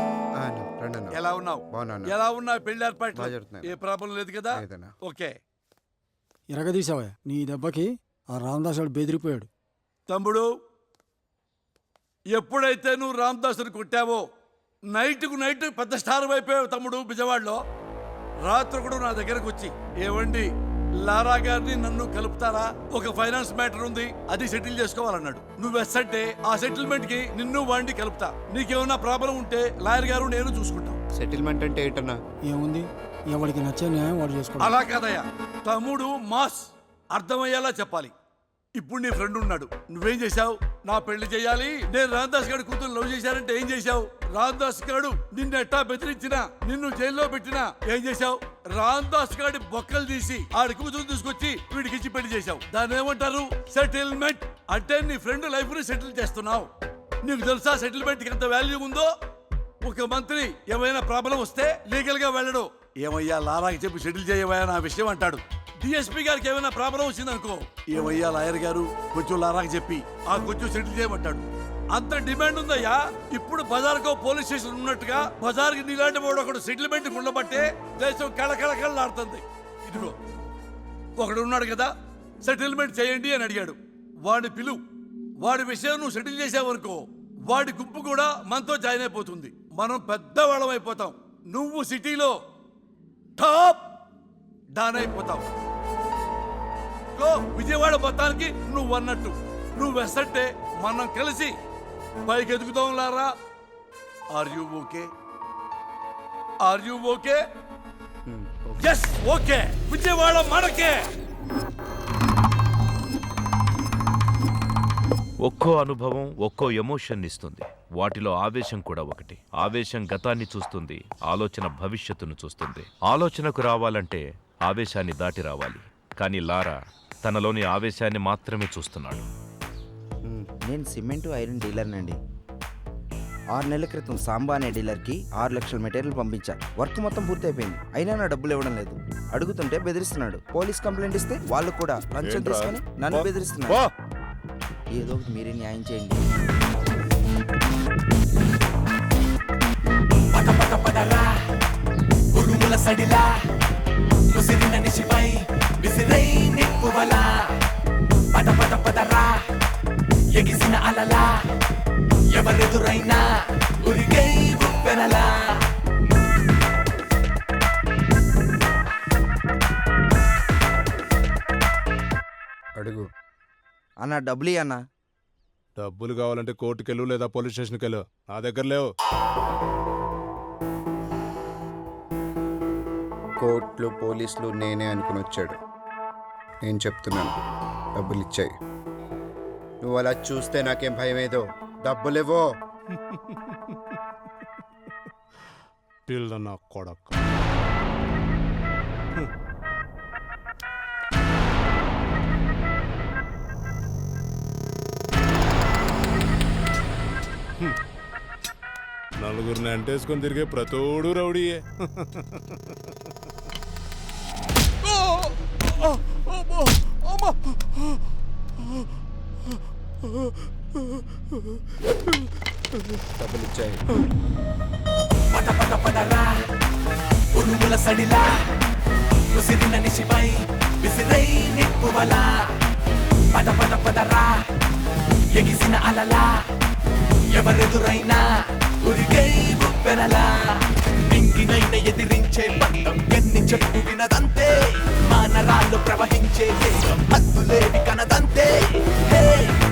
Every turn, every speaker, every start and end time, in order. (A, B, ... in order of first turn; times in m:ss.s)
0:00.4-0:01.2 A
0:01.1-0:05.3 B
0:01.7-0:02.2 A
0:03.2-0:03.8 A
0:04.5-0:04.9 A
0:06.5-0:09.5 C
0:10.1-0:10.5 B
0:12.3-0:14.2 B
0:14.9-0:17.6 B
0:18.5-0:20.5 B
0:21.0-0:31.0 B
0:31.2-0:32.2 A
0:32.4-0:34.8 C
0:34.6-0:38.1 B
0:38.8-0:56.7 B
0:57.2-0:59.1 B
0:59.8-1:20.2 B
1:21.2-1:21.9 B
1:22.4-1:24.8 B
1:25.4-1:32.4 B
1:33.4-1:33.9 B
1:34.8-1:35.5 B
1:37.2-1:41.5 B
1:42.3-1:43.3 B
1:44.3-1:45.1 B
1:46.6-1:47.4 B
1:48.3-1:48.8 A
1:48.8-1:51.0 B
1:55.4-2:09.3 D
2:10.4-2:12.2 E
2:13.5-2:23.8 E
2:24.9-2:26.2 E
2:30.3-2:31.3 F
2:32.3-2:33.3 F
2:34.3-2:37.4 F
2:38.3-2:39.4 F
2:40.4-2:41.4 F
2:42.3-2:43.3 F
2:43.8-2:45.5 F
2:52.8-2:53.1 A
2:54.0-2:54.8 E
2:55.8-2:58.9 G
3:03.4-3:05.6 A
3:06.6-3:07.3 A
3:08.0-3:08.5 A
3:09.8-3:12.5 A
3:16.1-3:17.1 G
3:29.2-3:32.1 G
3:43.2-3:43.8 A
3:45.3-3:46.4 F
3:47.4-3:48.4 F
3:49.3-3:52.5 F
3:53.3-3:54.4 F
3:55.4-3:56.4 F
3:57.3-4:09.6 F